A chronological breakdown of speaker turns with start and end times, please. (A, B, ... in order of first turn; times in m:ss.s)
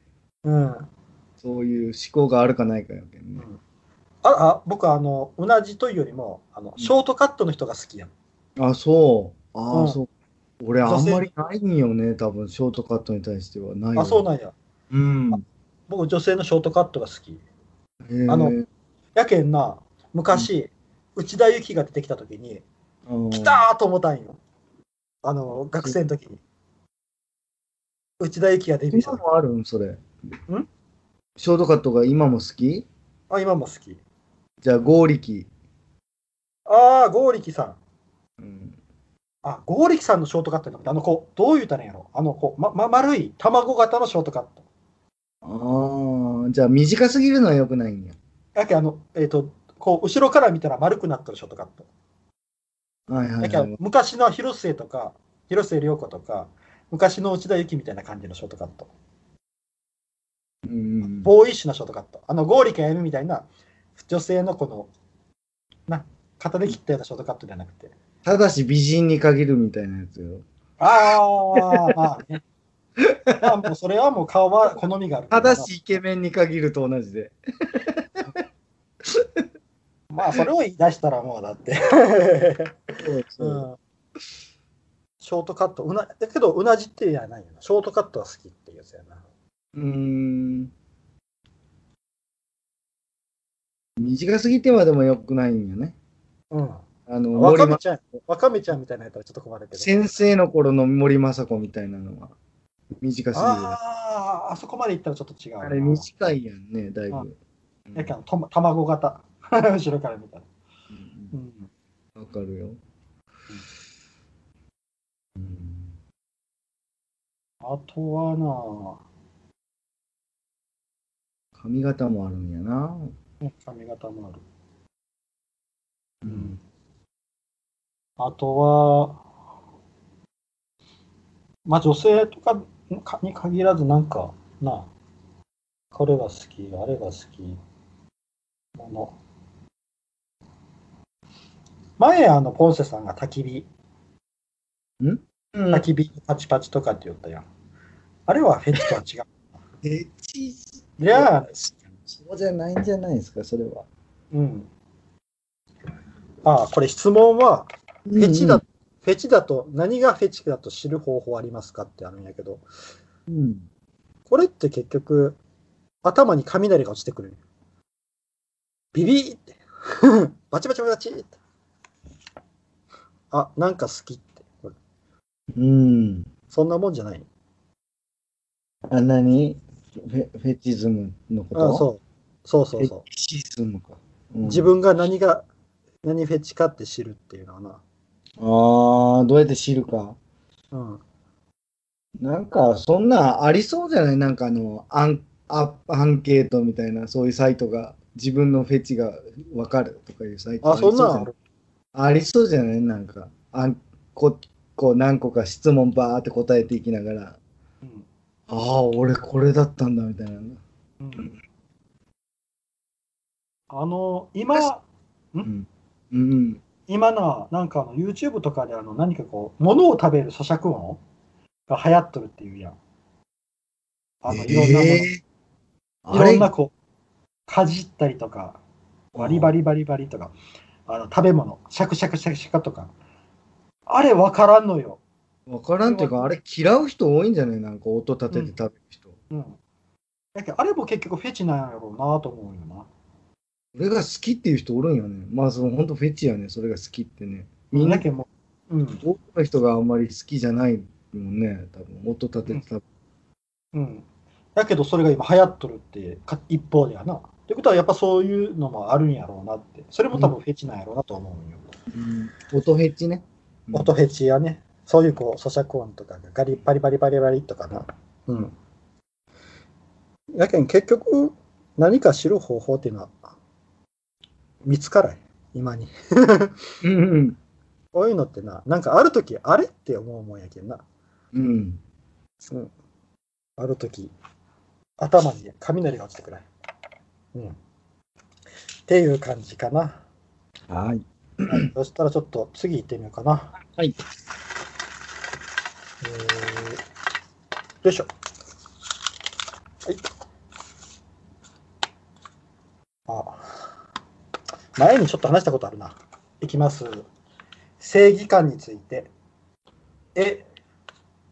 0:00.4-0:00.9 A
0:01.4-0:03.4 B
0:04.2-0:08.1 A
0:08.6-0:10.1 B
0:09.7-0:10.0 A
0:10.6-0:14.2 B
0:10.8-0:11.3 A
0:14.0-0:14.6 A
0:14.9-0:15.4 B
0:15.3-0:17.4 A
0:18.0-0:18.7 B
0:18.3-0:18.6 A
0:19.2-0:22.6 A
0:23.1-0:23.6 B
0:23.3-0:24.4 A
0:25.2-0:26.4 A
0:28.2-0:29.2 A
0:28.9-0:30.0 B
0:31.4-0:32.9 B
0:33.3-0:34.0 A
0:34.6-0:35.5 B
0:36.7-0:37.8 A
0:38.4-0:38.8 B
0:39.4-0:44.6 A
0:45.4-0:48.2 B
0:48.6-0:51.9 A
0:53.1-0:53.8 B
0:53.4-0:58.9 A
1:00.6-1:01.3 B
1:01.2-1:04.9 A
1:05.9-1:07.9 A
1:08.2-1:10.4 B
1:10.8-1:12.4 A
1:11.1-1:11.9 B
1:13.0-1:13.5 B
1:13.4-1:15.8 A
1:15.3-1:18.4 B
1:19.0-1:19.5 B
1:20.1-1:23.8 A
1:23.0-1:23.6 B
1:25.2-1:29.2 A
1:29.8-1:30.7 B
1:34.0-1:36.0 B
1:36.5-1:36.8 A
1:37.1-1:37.8 B
1:37.4-1:40.0 A
1:39.8-1:42.4 B
1:43.0-1:43.8 B
1:43.3-1:46.1 A
1:45.6-1:47.3 B
1:47.9-1:48.1 B
1:48.0-1:50.5 A
1:50.9-1:51.3 B
1:51.3-1:51.7 A
1:52.2-1:52.8 B
1:55.4-1:56.0 B
1:57.6-1:59.0 A
2:01.6-2:03.1 B
2:03.4-2:04.4 A
2:06.2-2:06.6 B
2:06.3-2:06.5 A
2:08.2-2:09.2 A
2:11.7-2:14.9 A
2:15.9-2:17.6 A
2:18.8-2:19.2 A
2:22.0-2:23.7 A
2:25.0-2:25.9 B
2:25.7-2:27.5 A
2:28.3-2:29.3 A
2:29.8-2:33.9 B
2:31.0-2:31.6 A
2:34.3-2:34.7 A
2:36.4-2:42.6 A
2:38.1-2:38.6 B
2:43.3-2:43.7 B
2:44.3-2:45.4 A
2:46.0-2:47.4 A
2:48.9-2:51.4 A
2:53.3-2:54.8 A
2:55.5-2:56.3 B
2:56.5-2:57.3 A
2:58.9-3:01.9 B
3:01.6-3:03.0 A
3:02.8-3:04.7 B
3:04.4-3:05.5 A
3:06.0-3:07.8 A
3:08.4-3:10.2 B
3:10.7-3:11.0 A
3:12.2-3:21.3 B
3:20.6-3:21.4 A
3:21.9-3:27.4 B
3:28.5-3:30.6 B
3:31.0-3:31.3 A
3:33.7-3:35.5 A
3:35.4-3:36.6 B
3:36.9-3:41.0 A
3:41.7-3:42.8 A
3:44.2-3:45.1 A
3:44.3-3:45.2 B
3:46.0-3:46.5 B
3:46.1-3:46.7 A
3:47.5-3:48.6 A
3:49.1-3:49.5 B
3:49.2-3:50.3 A
3:50.9-3:52.9 A
3:53.9-3:55.0 A
3:55.5-3:59.1 B
3:55.8-3:56.4 A
3:59.3-3:59.6 A
4:00.4-4:02.9 A
4:03.8-4:08.0 B
4:07.7-4:09.0 A
4:09.0-4:12.8 B
4:13.7-4:14.0 A
4:14.6-4:21.7 A
4:21.9-4:23.9 B
4:23.7-4:28.6 A
4:30.4-4:33.2 A
4:34.6-4:36.6 A
4:36.8-4:37.4 B
4:37.9-4:40.8 A
4:41.3-4:41.8 B
4:42.5-4:42.7 A
4:43.6-4:44.1 A
4:45.0-4:46.5 A
4:48.9-4:50.0 A
4:50.7-4:51.7 B
4:51.5-4:53.6 A
4:53.7-4:54.0 B
4:56.0-4:56.8 A
4:57.8-4:58.1 A
5:03.1-5:03.7 A
5:04.8-5:07.1 A
5:07.8-5:09.1 A
5:10.2-5:10.5 A